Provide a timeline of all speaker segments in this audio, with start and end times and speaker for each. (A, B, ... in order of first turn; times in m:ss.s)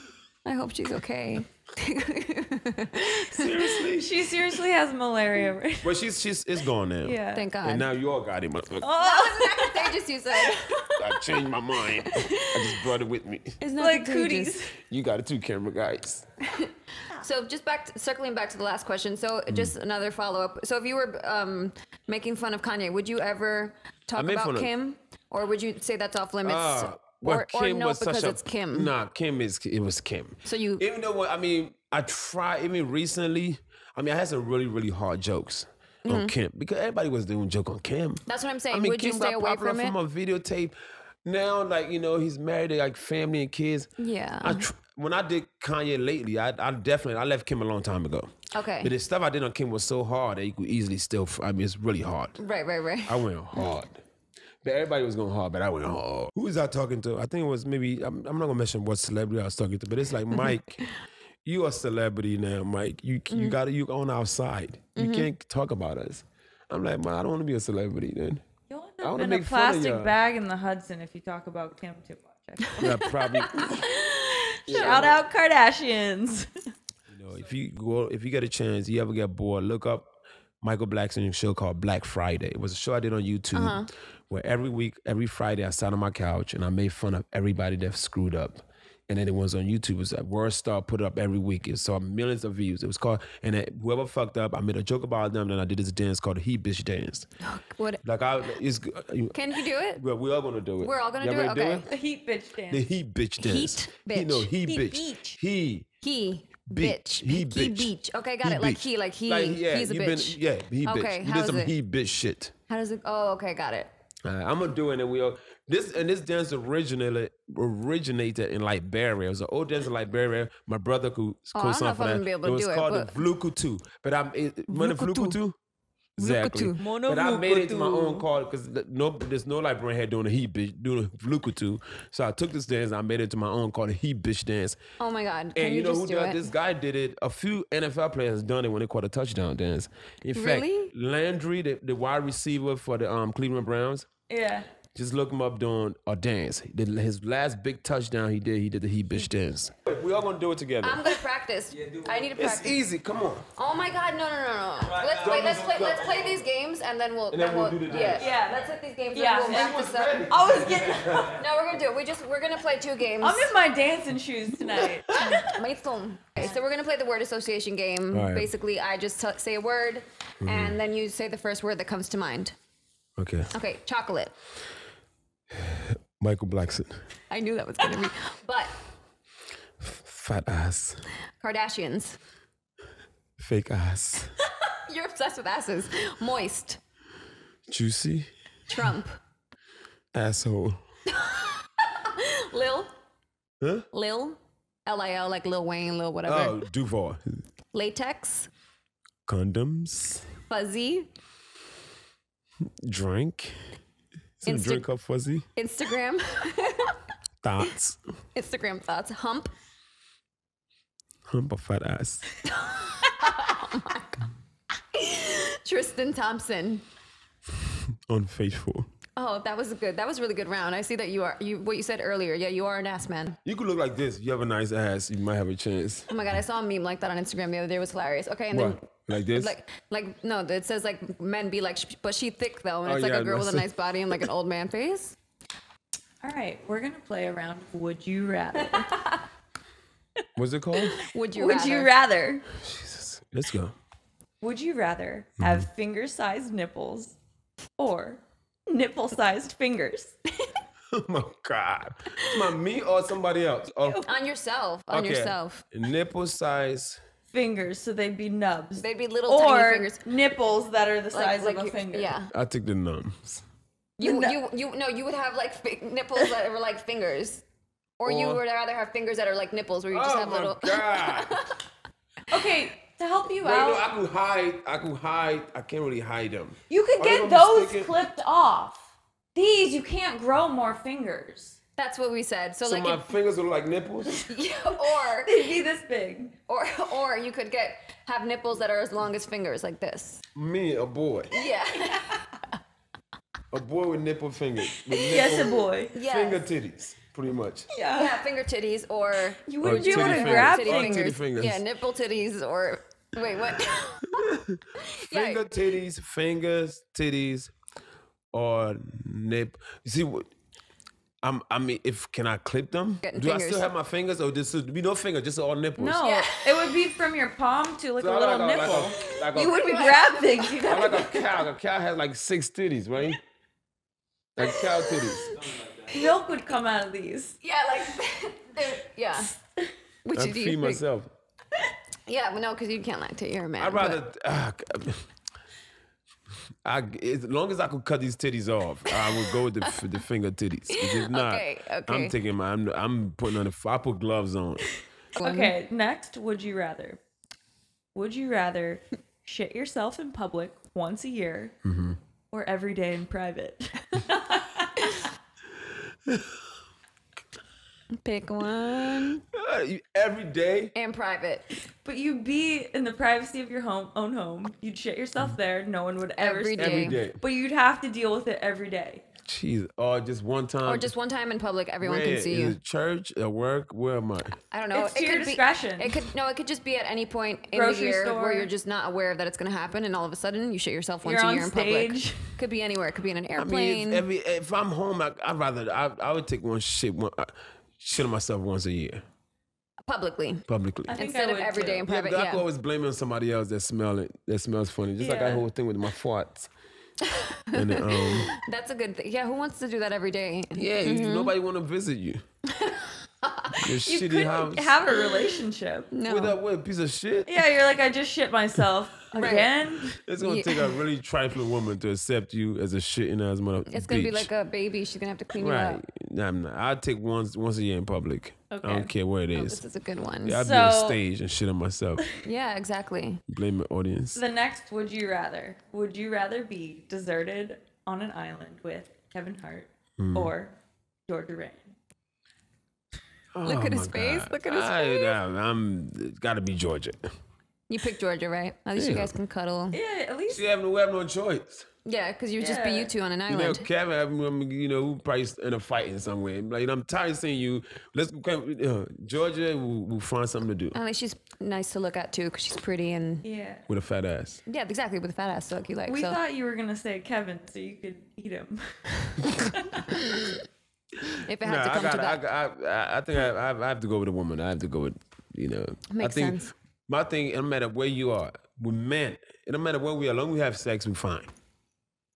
0:00.4-0:03.8 A
0:03.1-0:04.1 B
0:03.9-0:05.9 C
0:05.8-0:08.9 B
0:07.0-0:07.5 C
0:07.3-0:07.9 A
0:08.8-0:10.0 C
0:09.0-0:12.9 A
0:10.9-0:13.6 B
0:13.6-0:14.6 A
0:13.8-0:14.7 C
0:14.8-0:16.3 B
0:16.4-0:28.9 A
0:24.1-0:24.7 B
0:26.4-0:43.9 B
0:30.4-0:30.8 A
0:36.0-0:36.3 A
0:38.3-0:40.0 A
0:44.0-0:44.6 A
0:44.4-0:52.4 B
0:48.5-0:48.9 A
0:52.4-0:53.7 A
0:53.1-0:54.0 B
0:54.6-1:00.9 B
1:00.3-1:00.6 A
1:01.4-1:08.4 B
1:03.3-1:03.6 A
1:05.0-1:05.3 A
1:08.7-1:13.0 C
1:09.0-1:10.1 B
1:12.7-1:15.1 A
1:12.8-1:13.9 B
1:14.2-1:16.5 C
1:14.7-1:15.2 B
1:17.1-1:20.1 B
1:20.6-1:37.3 B
1:23.5-1:23.9 A
1:37.4-1:38.0 A
1:38.0-1:41.9 B
1:39.3-1:40.0 A
1:40.8-1:41.9 A
1:41.9-1:42.9 C
1:42.7-1:45.9 B
1:43.4-1:45.0 A
1:44.7-1:45.4 C
1:46.0-1:51.7 A
1:46.7-1:47.9 B
1:48.4-1:52.5 B
1:52.7-1:53.9 A
1:54.2-2:05.6 B
2:01.5-2:03.2 A
2:04.7-2:05.4 A
2:06.2-2:14.8 B
2:06.2-2:06.8 A
2:06.8-2:08.2 C
2:15.0-2:16.5 A
2:15.5-2:24.1 B
2:20.3-2:20.9 A
2:24.3-2:24.7 C
2:24.9-2:31.2 B
2:30.8-2:32.8 A
2:32.3-2:33.5 B
2:33.6-2:40.3 A
2:34.9-2:36.2 B
2:37.3-2:38.3 B
2:38.2-2:41.3 C
2:39.4-2:41.4 B
2:41.2-2:43.5 A
2:43.2-2:45.4 C
2:45.1-2:45.4 B
2:45.1-2:52.5 A
2:48.1-2:48.5 B
2:50.4-2:50.8 B
2:53.2-2:53.5 B
2:53.5-2:54.3 A
2:55.5-2:57.0 B
2:57.3-2:58.7 A
2:59.8-3:01.0 B
3:01.4-3:02.2 A
3:03.4-3:04.4 B
3:04.8-3:06.8 A
3:07.7-3:08.3 B
3:08.7-3:09.2 A
3:10.1-3:10.8 B
3:11.1-3:12.9 A
3:13.6-3:13.9 B
3:13.9-3:16.6 A
3:16.2-3:17.2 B
3:17.7-3:18.5 A
3:19.3-3:20.3 B
3:20.5-3:21.1 A
3:22.8-3:23.6 B
3:24.4-3:25.5 B
3:24.4-3:24.9 A
3:25.5-3:27.0 A
3:27.4-3:28.0 B
3:28.4-3:29.5 A
3:31.3-3:32.3 B
3:32.5-3:34.3 A
3:34.9-3:36.8 A
3:37.6-3:38.9 B
3:39.2-3:43.4 A
3:43.4-3:46.1 B
3:46.1-3:55.2 A
3:48.5-3:49.5 B
3:52.8-3:53.7 B
3:56.2-3:58.9 C
4:00.4-4:01.0 B
4:01.0-4:01.9 A
4:01.3-4:02.4 C
4:02.6-4:03.7 B
4:04.4-4:07.2 C
4:05.4-4:05.7 B
4:07.8-4:10.1 C
4:10.9-4:14.0 B
4:12.2-4:12.5 A
4:14.0-4:15.6 A
4:14.9-4:17.0 B
4:17.3-4:22.1 C
4:18.8-4:20.0 A
4:21.1-4:22.3 A
4:22.3-4:23.4 B
4:24.0-4:27.4 A
4:24.0-4:24.4 C
4:28.0-4:31.6 A
4:28.0-4:28.4 B
4:29.9-4:31.4 B
4:32.3-4:33.8 C
4:33.4-4:38.0 B
4:36.7-4:41.6 C
4:41.8-4:43.1 A
4:42.6-4:44.3 B
4:44.2-4:45.5 A
4:45.2-4:46.4 C
4:46.5-4:50.2 A
4:50.4-4:51.4 B
4:51.3-4:52.5 A
4:53.5-4:57.7 B
4:54.9-4:55.9 C
4:55.9-4:56.4 A
4:57.7-4:58.1 C
4:57.9-5:05.5 A
4:59.5-5:01.2 C
4:59.6-5:01.6 B
5:04.1-5:07.5 B
5:08.3-5:10.3 B
5:11.2-5:16.0 B
5:13.0-5:13.7 A
5:15.8-5:21.2 C
5:16.0-5:16.9 A
5:18.0-5:19.7 B
5:19.0-5:21.5 A
5:20.6-5:23.2 B
5:24.4-5:25.4 B
5:24.4-5:26.1 A
5:25.9-5:27.4 C
5:27.4-5:29.3 A
5:30.0-5:30.8 A
5:30.1-5:31.1 B
5:32.1-5:34.0 A
5:33.6-5:35.1 B
5:36.6-5:44.7 B
5:38.9-5:39.7 A
5:40.7-5:42.1 A
5:45.2-5:45.5 A
5:45.2-5:47.0 C
5:47.9-5:51.5 C
5:51.6-5:52.0 B
5:52.3-5:55.1 C
5:56.1-5:56.3 B
5:58.0-5:59.2 A
5:59.3-6:00.7 B
6:00.7-6:01.5 A
6:01.8-6:09.0 C
6:06.2-6:07.0 A
6:06.6-6:07.2 B
6:09.2-6:10.9 B
6:10.6-6:12.6 A
6:11.8-6:14.4 B
6:14.4-6:24.0 A
6:14.7-6:15.9 C
6:17.5-6:18.5 C
6:21.0-6:22.2 C
6:23.4-6:29.0 B
6:29.8-6:32.4 A
6:30.5-6:30.9 B
6:30.9-6:31.8 C
6:31.9-6:36.5 B
6:35.0-6:35.4 C
6:37.0-6:41.3 A
6:37.5-6:38.3 B
6:40.6-6:42.2 B
6:42.5-6:43.7 A
6:43.6-6:44.8 B
6:43.9-6:45.9 C
6:44.9-6:45.4 A
6:45.9-6:46.4 A
6:46.1-6:47.3 B
6:47.3-6:50.0 C
6:49.1-6:49.5 A
6:50.0-6:54.3 B
6:50.2-6:50.8 A
6:53.7-6:55.8 A
6:55.4-6:59.6 B
6:58.5-6:58.9 C
6:59.4-7:00.4 A
7:00.2-7:02.0 B
7:00.4-7:01.0 C
7:02.2-7:03.2 A
7:03.3-7:04.2 B
7:04.2-7:10.5 C
7:10.0-7:10.3 B
7:11.1-7:11.7 C
7:13.4-7:17.1 B
7:13.4-7:15.2 A
7:17.7-7:19.8 A
7:18.7-7:19.1 B
7:19.7-7:20.4 C
7:20.3-7:21.7 B
7:21.8-7:23.7 A
7:22.4-7:22.9 C
7:23.3-7:30.8 B
7:30.7-7:33.2 A
7:33.2-7:33.6 C
7:33.7-7:34.4 B
7:34.5-7:36.2 A
7:35.9-7:40.0 C
7:39.9-7:40.4 A
7:41.1-7:42.2 A
7:41.4-7:51.3 B
7:45.9-7:46.5 A